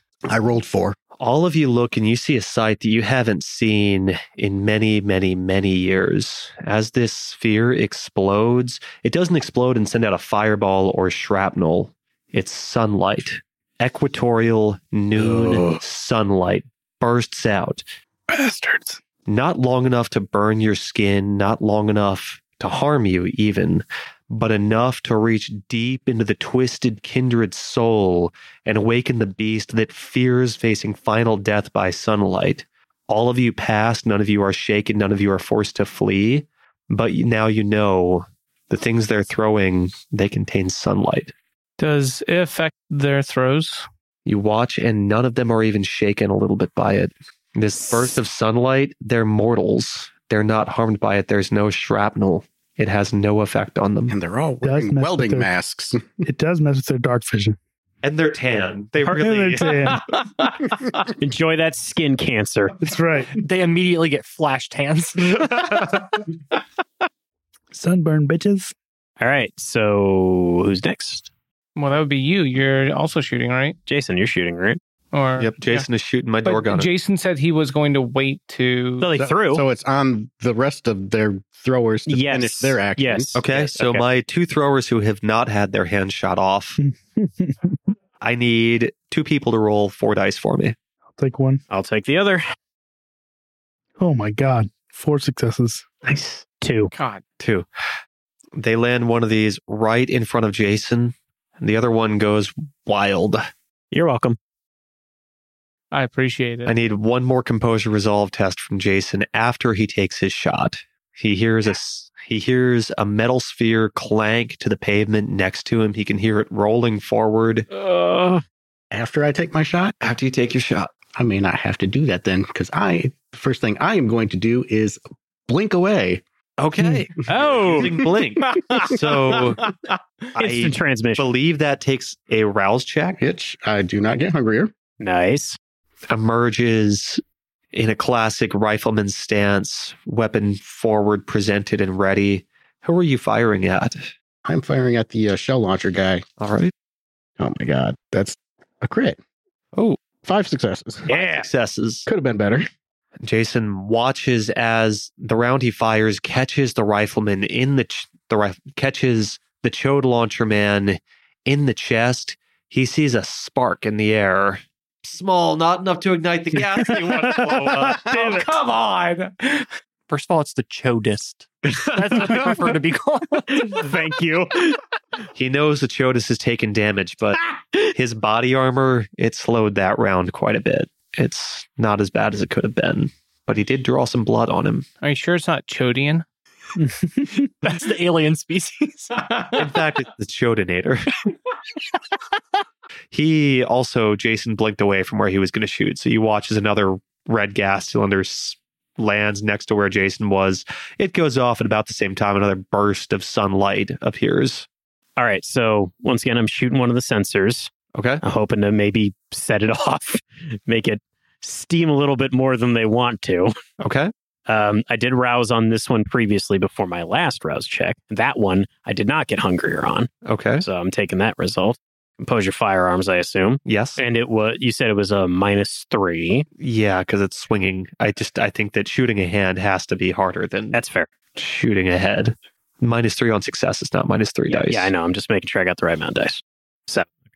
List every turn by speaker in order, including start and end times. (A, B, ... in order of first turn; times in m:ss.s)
0:00.3-0:01.0 A
0:01.2-0:17.8 B
0:18.3-0:19.0 C
0:19.2-0:41.3 B
0:41.8-0:43.8 D
0:44.2-0:54.1 B
0:54.1-0:56.2 A
0:54.6-0:55.5 C
0:56.2-0:57.6 C
0:58.0-1:00.0 B
0:59.0-1:00.0 C
1:00.2-1:00.8 D
1:01.2-1:02.8 E
1:02.8-1:03.3 C
1:03.4-1:06.0 F
1:07.7-1:08.7 C
1:09.2-1:11.3 E
1:11.8-1:13.8 D
1:13.9-1:14.8 E
1:15.1-1:15.9 D
1:15.4-1:16.9 B
1:16.4-1:19.1 D
1:19.0-1:19.6 E
1:19.2-1:23.4 A
1:22.1-1:24.0 E
1:23.3-1:26.8 B
1:26.8-1:27.8 C
1:28.2-1:30.8 B
1:31.2-1:31.6 C
1:31.7-1:32.4 E
1:34.0-1:35.9 C
1:36.0-1:36.9 E
1:36.9-1:37.2 D
1:37.4-1:37.7 B
1:38.6-1:43.4 B
1:43.9-1:44.4 E
1:45.9-1:46.7 D
1:46.6-1:57.7 B
1:57.7-1:58.4 E
1:58.9-1:59.9 A
2:00.0-2:00.9 B
2:01.2-2:06.2 A
2:06.6-2:09.6 B
2:07.2-2:08.0 E
2:07.6-2:08.1 A
2:08.5-2:08.9 E
2:10.3-2:13.2 B
2:10.4-2:11.2 E
2:13.2-2:14.7 A
2:15.0-2:15.6 E
2:16.1-2:17.2 B
2:17.7-2:24.1 B
2:24.4-2:26.2 A
2:26.4-2:26.7 B
2:27.4-2:29.2 A
2:30.2-2:31.1 A
2:31.1-2:31.5 E
2:31.1-2:32.1 B
2:32.1-2:32.6 A
2:33.2-2:48.1 B
2:47.9-2:49.7 D
2:48.0-2:48.5 E
2:50.1-2:53.8 F
2:52.1-2:52.6 E
2:53.5-2:54.8 E
2:55.3-2:57.4 B
2:57.9-3:04.8 B
3:05.0-3:06.2 D
3:06.8-3:07.5 C
3:07.6-3:09.2 F
3:09.2-3:09.6 D
3:09.5-3:11.1 B
3:13.1-3:24.7 B
3:25.2-3:27.7 E
3:27.9-3:28.2 B
3:28.2-3:33.5 E
3:33.8-3:34.1 B
3:34.5-3:40.1 E
3:40.2-3:40.6 B
3:40.6-3:46.4 E
3:43.6-3:44.0 B
3:46.6-3:50.8 B
3:50.7-3:51.1 E
3:51.4-3:54.9 B
3:54.5-3:57.1 E